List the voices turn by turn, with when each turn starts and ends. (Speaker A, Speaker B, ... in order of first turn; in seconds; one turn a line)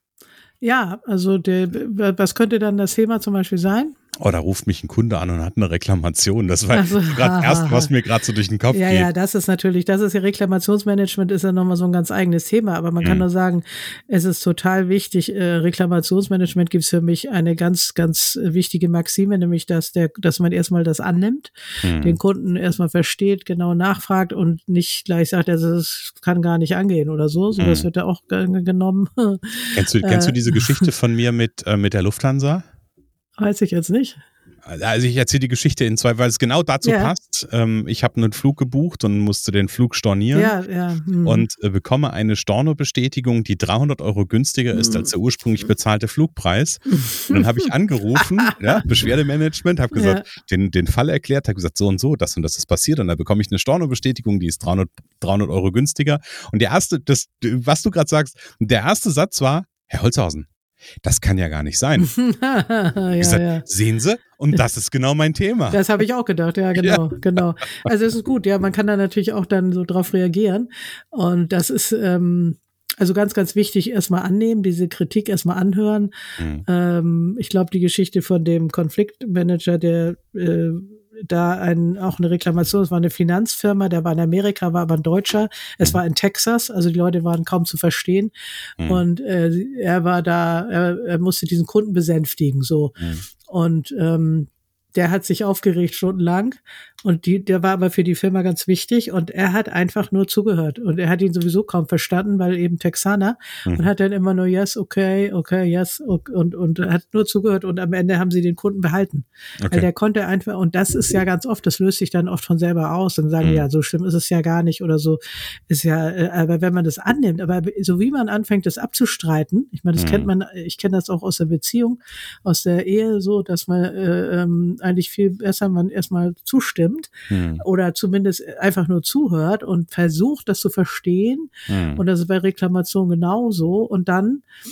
Speaker A: 0.6-3.9
Speaker B: 4.2-9.1
Speaker A: 6.7-7.9
Speaker A: 8.7-30.9
Speaker B: 21.8-22.2
Speaker B: 27.6-27.9
Speaker B: 29.7-32.6
Speaker A: 33.4-34.2
Speaker B: 34.6-40.5
Speaker A: 36.8-37.1
Speaker A: 40.3-41.5
Speaker B: 41.2-60.5
Speaker A: 44.8-45.1
Speaker A: 47.0-47.4
Speaker A: 48.4-48.8
Speaker A: 49.9-50.2
Speaker B: 61.0-62.1
Speaker A: 62.0-63.6
Speaker B: 63.2-65.9
Speaker A: 65.7-76.1
Speaker B: 76.4-76.6
Speaker A: 76.7-92.9
Speaker A: 93.5-134.4
Speaker B: 109.6-109.9
Speaker B: 120.0-120.3
Speaker B: 127.3-127.6
Speaker B: 131.7-132.0